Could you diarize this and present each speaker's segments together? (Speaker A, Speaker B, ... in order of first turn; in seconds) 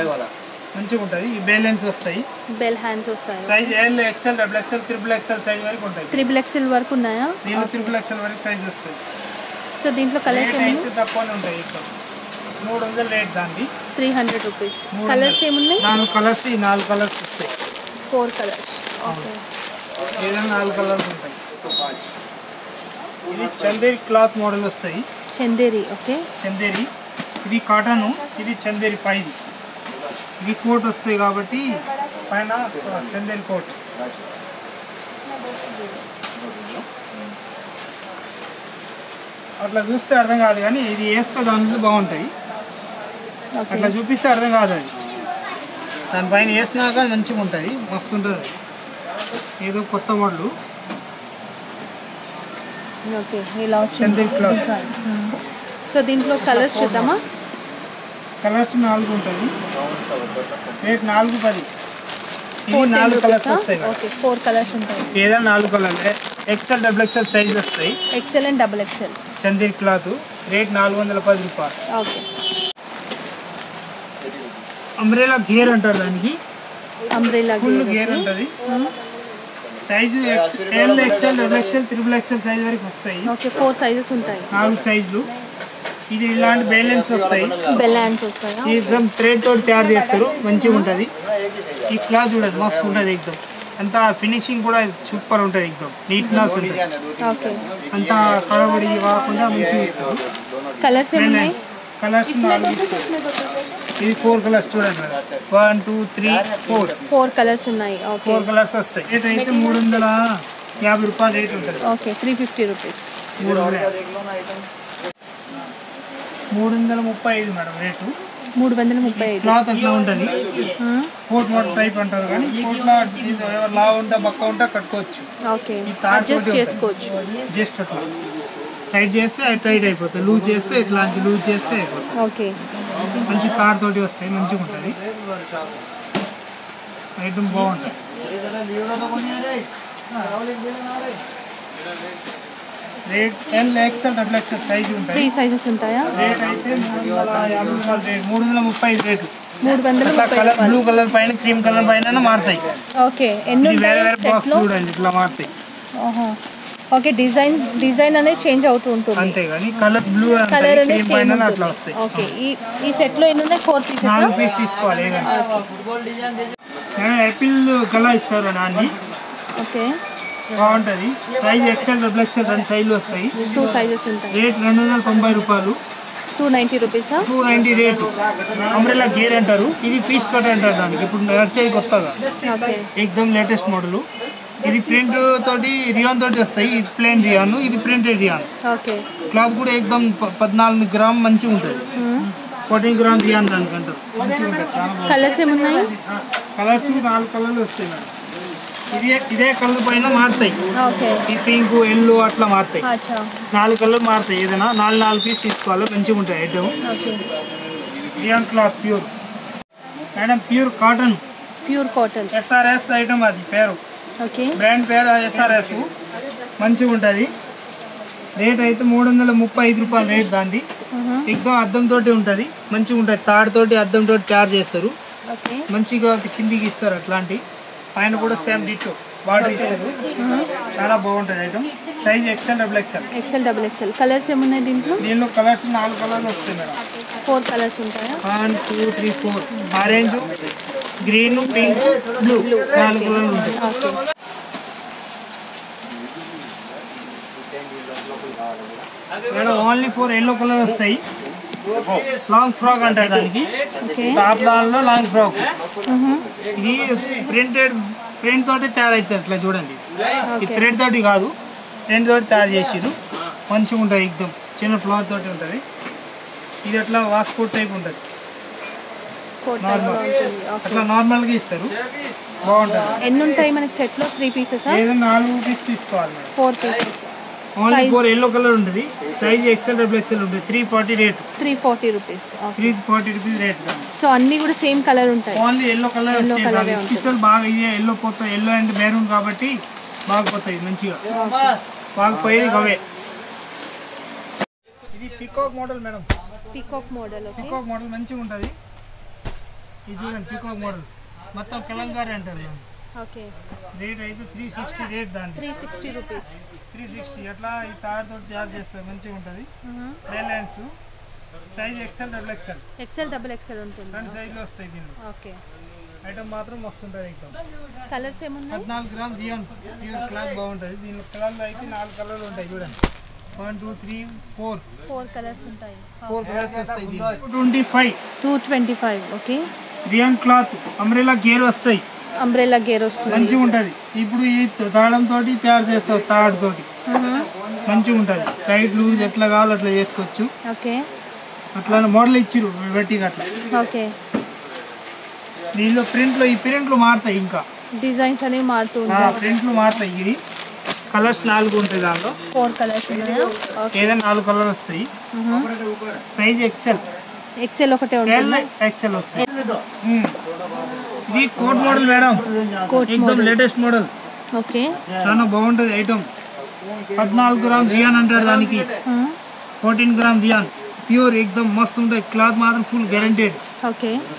Speaker A: 0.7-2.2, 3.4-6.3, 7.4-9.0, 10.3-11.9, 12.6-13.7, 14.9-17.5, 19.1-19.3, 20.1-21.4, 23.3-25.1, 26.4-26.9, 27.4-29.4, 30.4-33.8, 39.6-42.3, 43.7-44.9, 46.1-48.5, 49.6-50.5, 54.0-54.6, 56.4-57.1, 58.4-59.5, 60.8-61.7, 62.7-64.0, 65.1-68.0, 69.4-71.7, 75.0-76.4, 77.6-78.5, 79.8-83.3, 84.5-85.3, 86.1-87.7, 88.6-91.1, 91.9-96.9, 97.9-100.2, 101.1-103.1, 104.0-107.0, 108.2-111.8, 113.4-114.0, 116.5-118.1, 119.1-120.4, 121.3-125.3, 125.8-126.8, 127.5-128.1, 128.9-132.1, 133.3-135.0, 137.2-137.9, 143.1-145.3, 146.1-149.3, 150.0-152.7, 153.6-155.5, 159.2-162.3, 164.0-165.3, 166.9-169.0, 170.5-173.7, 174.3-175.8, 177.2-182.2, 182.8-184.1, 184.6-188.5, 189.3-191.8, 192.7-195.3, 196.6-198.1, 198.9-200.6, 201.3-202.8, 203.5-206.7, 208.2-209.1, 210.1-211.2, 212.3-213.8, 214.6-215.9, 216.6-217.3, 218.4-220.7, 221.3-224.9, 225.7-227.4, 227.9-230.2, 230.7-233.1, 235.0-236.8, 238.2-240.3, 241.0-243.7, 249.3-251.0, 252.2-253.5, 254.1-255.5, 256.5-259.8, 260.4-261.3, 261.9-262.9, 263.5-265.6, 266.6-268.0, 269.6-270.1, 270.6-271.7, 272.4-273.0, 274.7-276.3, 277.6-281.2, 282.6-283.9, 285.3-289.6, 290.1-291.0, 291.9-292.8, 294.9-296.1, 297.4-298.5, 299.9-302.6, 303.7-305.5, 306.7-309.5, 310.1-310.7, 311.5-312.6, 313.9-315.0, 316.0-317.4, 318.5-322.8, 323.3-324.6, 326.1-328.0, 329.9-331.8, 333.1-336.7, 337.6-340.3, 341.5-343.3, 345.5-347.4, 348.9-350.2, 350.9-352.2, 353.7-354.9, 356.1-356.8, 358.1-360.2, 361.1-363.9, 365.0-366.1, 366.9-368.7, 369.6-373.4
Speaker B: 2.5-3.7, 6.1-7.9, 9.8-10.9, 13.9-15.9, 18.0-19.4, 25.3-26.3, 35.4-36.0, 43.5-43.9, 53.0-55.4, 55.9-57.2, 62.7-65.1, 68.1-69.2, 71.9-72.2, 77.1-78.9, 83.2-84.5, 87.7-88.8, 90.4-90.9, 96.2-96.5, 97.2-97.6, 100.8-101.6, 102.3-103.7, 107.0-108.5, 109.3-109.8, 111.8-113.1, 118.5-119.6, 120.8-121.1, 125.4-127.2, 132.2-132.6, 145.1-146.1, 149.6-150.8, 152.9-154.7, 155.9-156.4, 156.9-159.4, 160.5-164.3, 165.2-165.8, 169.6-170.0, 173.5-174.4, 176.4-177.3, 182.4-182.9, 188.6-189.1, 191.9-192.3, 195.0-195.9, 200.7-201.2, 202.8-203.5, 206.8-207.2, 211.6-212.3, 214.2-214.6, 220.9-221.3, 225.3-225.7, 229.4-230.5, 233.1-235.0, 237.2-238.2, 241.1-244.0, 253.8-254.2, 255.8-256.3, 260.3-260.6, 269.4-270.9, 273.0-274.8, 276.3-278.0, 281.4-282.8, 283.9-285.4, 286.1-287.1, 291.1-291.6, 296.5-297.6, 302.9-303.3, 305.3-306.4, 309.6-310.0, 312.8-314.4, 315.0-315.4, 317.9-318.7, 324.8-326.4, 328.2-329.4, 332.1-333.4, 336.9-337.3, 340.4-340.9, 343.5-343.9, 347.7-349.2, 352.3-353.9, 355.1-355.5, 357.4-358.5, 359.2-359.5, 362.6-363.4, 364.3-364.8, 368.8-369.2, 373.6-374.1